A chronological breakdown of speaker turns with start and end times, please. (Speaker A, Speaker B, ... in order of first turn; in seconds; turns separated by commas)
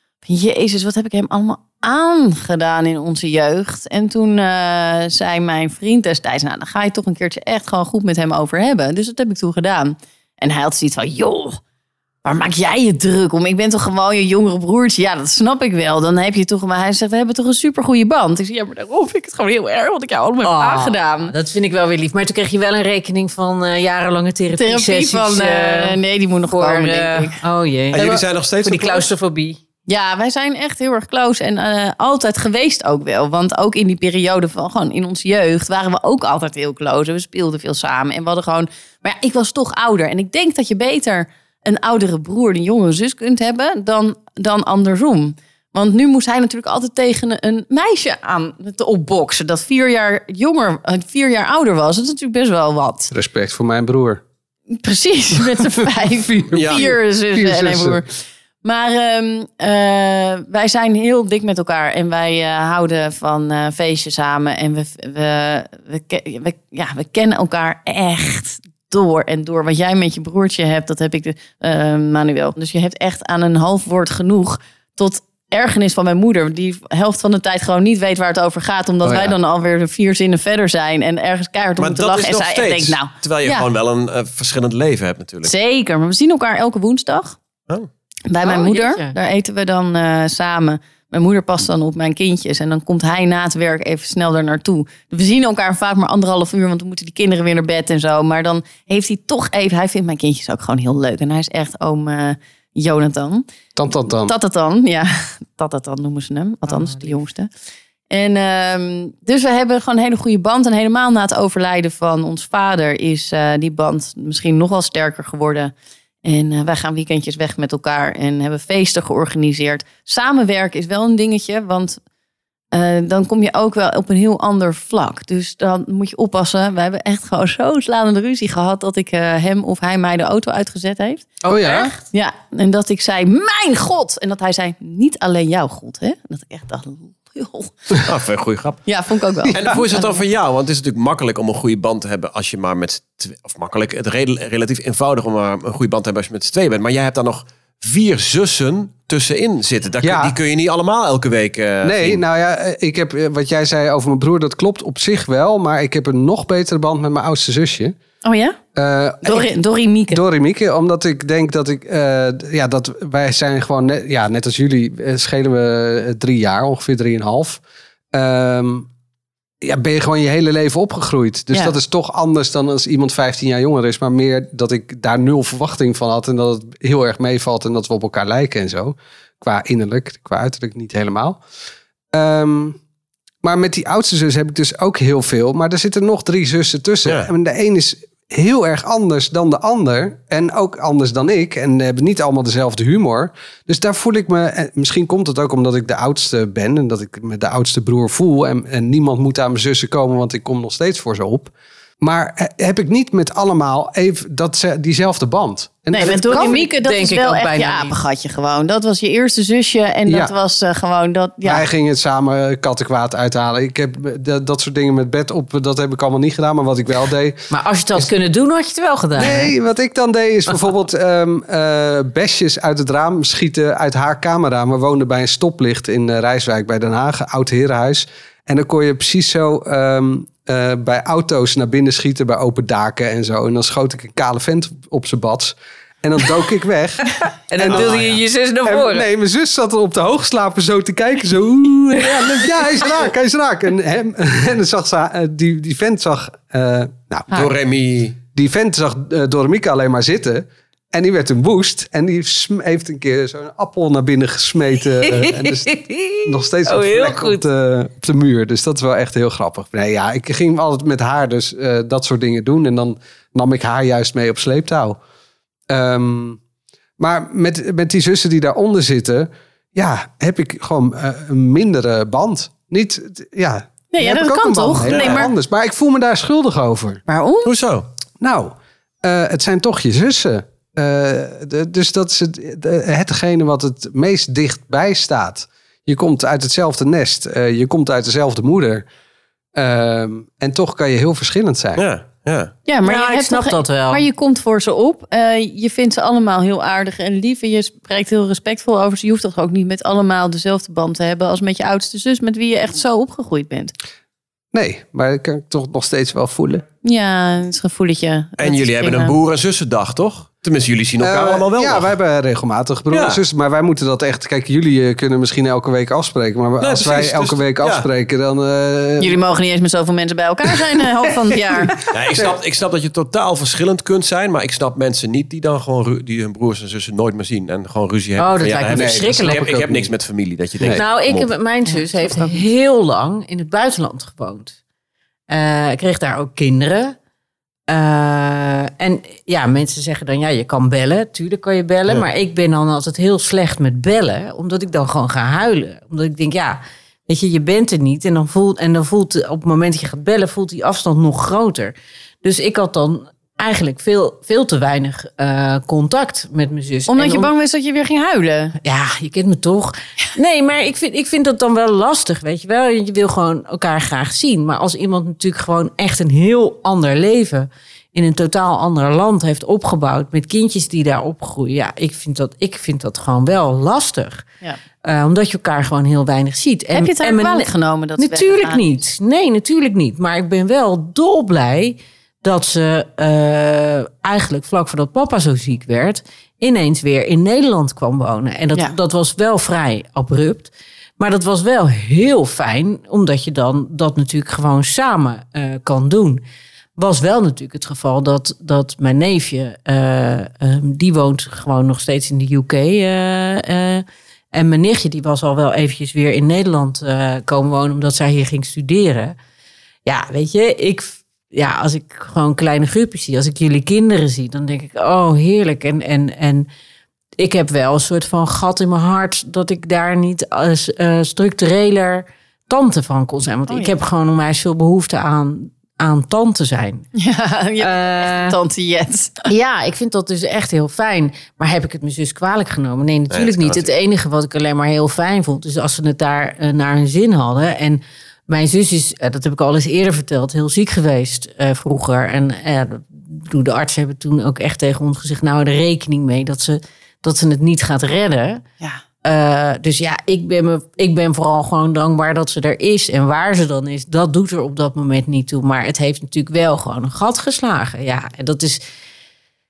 Speaker A: 0.2-11.6, Speaker A: 12.2-21.3, Speaker B: 20.4-29.6, Speaker A: 24.6-27.4, Speaker C: 27.9-29.1, Speaker A: 29.9-53.1, Speaker D: 53.1-54.2, Speaker A: 54.7-83.7, Speaker D: 56.0-58.0, Speaker C: 56.5-56.9, Speaker D: 79.0-79.4, Speaker C: 81.8-85.5, Speaker A: 85.4-87.4, Speaker A: 88.3-103.5, Speaker B: 88.4-89.2, Speaker D: 103.8-104.3, Speaker A: 104.1-107.5, Speaker B: 106.7-107.1, Speaker A: 108.1-115.7, Speaker A: 116.2-122.0, Speaker A: 122.7-131.4, Speaker B: 131.4-131.9, Speaker D: 131.5-131.9, Speaker A: 132.0-138.1, Speaker C: 138.0-138.8, Speaker A: 138.9-140.2, Speaker C: 139.4-152.2, Speaker D: 150.0-150.4, Speaker D: 151.8-157.9, Speaker A: 158.2-158.6, Speaker D: 158.8-159.5, Speaker A: 159.2-160.2, Speaker D: 160.1-167.6, Speaker D: 168.1-168.9, Speaker D: 169.6-181.4, Speaker A: 171.5-171.8, Speaker D: 182.1-182.8, Speaker D: 183.4-206.6, Speaker A: 205.9-211.7, Speaker B: 206.0-208.0, Speaker D: 210.1-210.3, Speaker D: 211.4-218.1, Speaker B: 217.5-219.5, Speaker D: 219.2-247.5, Speaker B: 237.5-239.1, Speaker C: 237.7-238.2, Speaker C: 247.3-248.2, Speaker D: 248.3-265.0, Speaker B: 255.0-257.4, Speaker D: 265.7-266.4, Speaker D: 267.0-277.0, Speaker A: 273.9-275.3, Speaker C: 274.8-275.3, Speaker A: 277.1-277.5, Speaker C: 277.4-277.9, Speaker D: 278.2-288.9, Speaker D: 289.6-291.8, Speaker C: 291.8-292.5, Speaker A: 292.7-303.7, Speaker B: 292.8-294.1, Speaker D: 304.5-306.6, Speaker A: 306.8-309.2, Speaker C: 308.4-311.9, Speaker D: 311.0-319.2, Speaker C: 312.9-313.2, Speaker C: 316.6-317.9, Speaker A: 319.0-321.8, Speaker D: 320.5-322.4, Speaker C: 321.9-331.3, Speaker B: 328.2-329.5, Speaker D: 328.7-329.9, Speaker B: 330.7-334.5, Speaker A: 331.6-332.5, Speaker B: 335.3-337.0, Speaker B: 337.7-357.3, Speaker A: 356.9-358.6, Speaker B: 358.6-374.3, Speaker B: 374.8-396.2, Speaker A: 376.7-378.6, Speaker B: 396.8-409.1, Speaker B: 409.9-416.5, Speaker B: 417.2-426.9, Speaker A: 423.5-423.8, Speaker A: 427.0-429.3, Speaker B: 427.6-428.4, Speaker B: 429.3-448.4, Speaker C: 433.1-433.7, Speaker B: 449.0-458.6